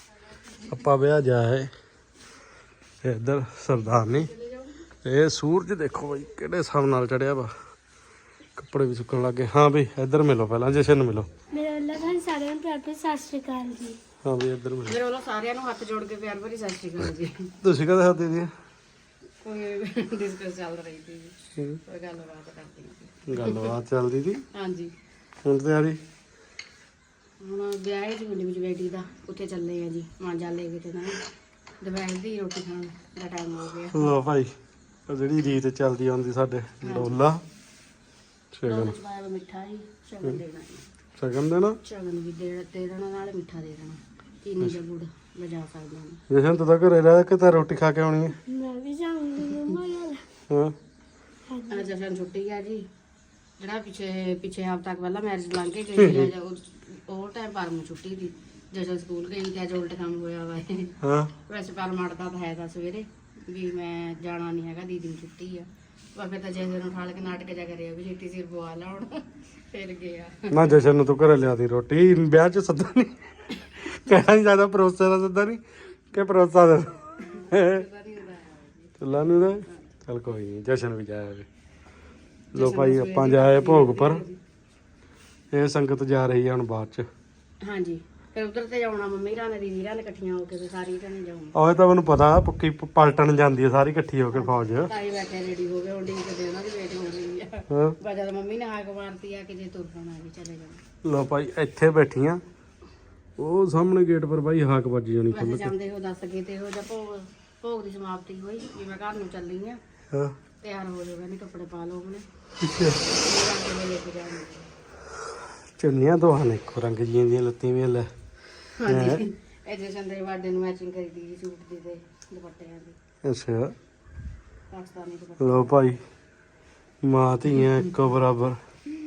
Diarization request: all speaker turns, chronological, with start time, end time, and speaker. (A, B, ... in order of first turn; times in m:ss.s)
0:00.6-0:01.7 A
0:03.0-0:04.3 A
0:04.0-0:04.7 B
0:05.0-0:07.5 A
0:08.6-0:11.3 A
0:11.5-0:14.0 C
0:14.2-0:15.0 A
0:14.9-0:17.5 B
0:17.6-0:18.5 A
0:19.4-0:23.8 B
0:23.3-0:24.4 A
0:24.5-0:24.9 B
0:25.4-0:26.0 A
0:27.4-0:31.2 B
0:31.8-0:34.1 B
0:33.9-0:34.5 A
0:35.1-0:37.4 A
0:36.8-0:37.2 B
0:38.5-0:39.0 A
0:38.6-0:40.9 B
0:41.2-0:41.8 A
0:41.8-0:46.2 B
0:46.3-0:48.4 A
0:48.5-0:50.2 C
0:50.5-0:50.7 A
0:51.5-0:51.9 C
0:51.7-0:52.8 B
0:53.6-1:10.7 B
0:56.0-0:56.3 A
1:01.0-1:01.3 A
1:10.5-1:17.8 A
1:17.3-1:19.9 B
1:19.0-1:21.5 A
1:22.5-1:24.2 A
1:22.6-1:24.4 B
1:25.5-1:27.1 A
1:27.6-1:31.6 B
1:31.5-1:34.9 A
1:34.3-1:40.8 B
1:37.7-1:38.0 A
1:41.0-1:42.4 A
1:43.4-1:45.7 A
1:45.3-1:49.8 B
1:50.6-1:52.2 B
1:52.6-1:53.0 A
1:53.1-1:54.7 B
1:55.8-1:58.1 A
1:58.8-2:03.0 B
1:58.8-1:59.2 A
2:03.2-2:03.8 A
2:04.7-2:06.0 B
2:05.4-2:06.0 A
2:07.0-2:08.6 A
2:07.6-2:07.9 B